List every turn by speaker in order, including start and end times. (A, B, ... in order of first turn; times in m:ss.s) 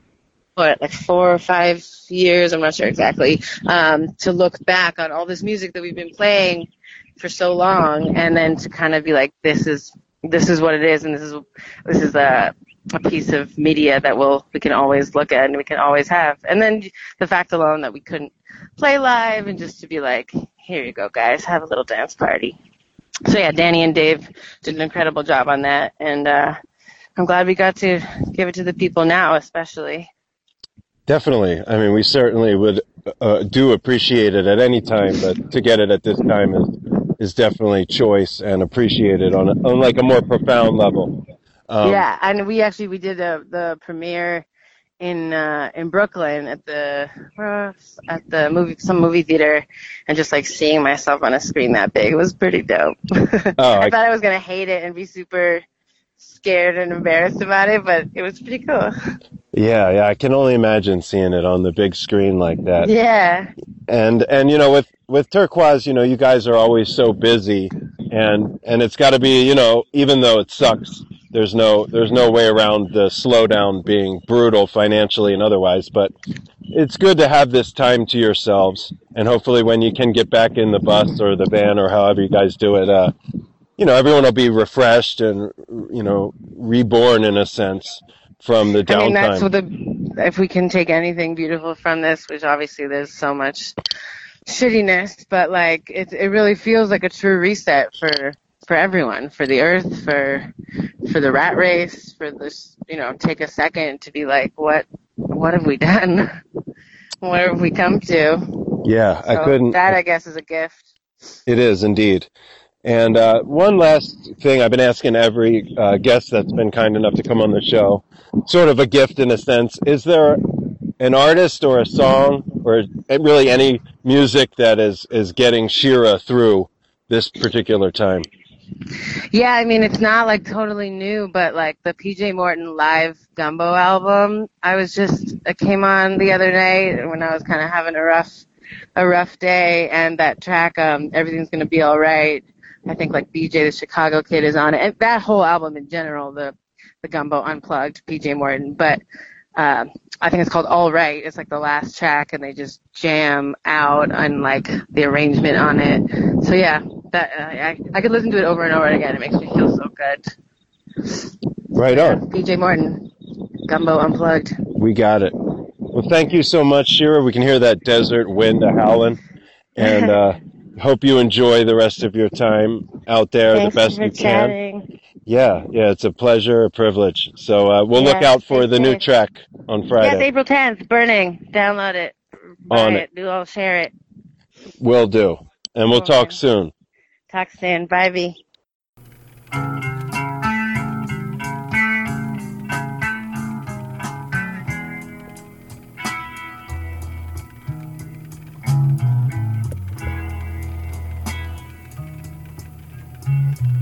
0:00.6-0:22.6 A
0:23.3-0:26.6 A
0:27.2-0:30.1 A
0:31.1-0:41.1 B
0:41.7-0:42.0 B
0:41.8-0:44.4 A
0:45.0-0:55.6 A
0:53.6-0:54.0 B
0:56.2-0:58.9 A
0:59.5-1:02.9 B
1:02.8-1:03.5 A
1:03.9-1:16.1 B
1:16.7-1:23.1 B
1:23.8-1:29.5 B
1:28.9-1:33.8 A
1:34.5-1:40.5 A
1:41.1-1:46.4 A
1:47.2-1:50.9 A
1:48.8-1:50.0 B
1:51.5-1:52.3 B
1:52.8-2:00.4 B
2:01.0-2:08.3 B
2:09.3-2:18.4 A
2:19.0-2:29.0 A
2:29.6-2:40.3 A
2:41.8-2:42.2 B
2:41.8-2:43.1 A
2:43.6-2:44.6 A
2:44.8-2:45.3 B
2:45.9-2:49.2 B
2:49.8-2:54.6 B
2:49.8-2:50.1 A
2:53.5-2:54.9 A
2:55.3-3:00.2 B
2:58.0-2:59.0 A
3:00.0-3:02.2 A
3:02.7-3:03.9 A
3:02.7-3:03.0 B
3:04.8-3:06.7 B
3:05.9-3:06.4 A
3:07.3-3:08.4 A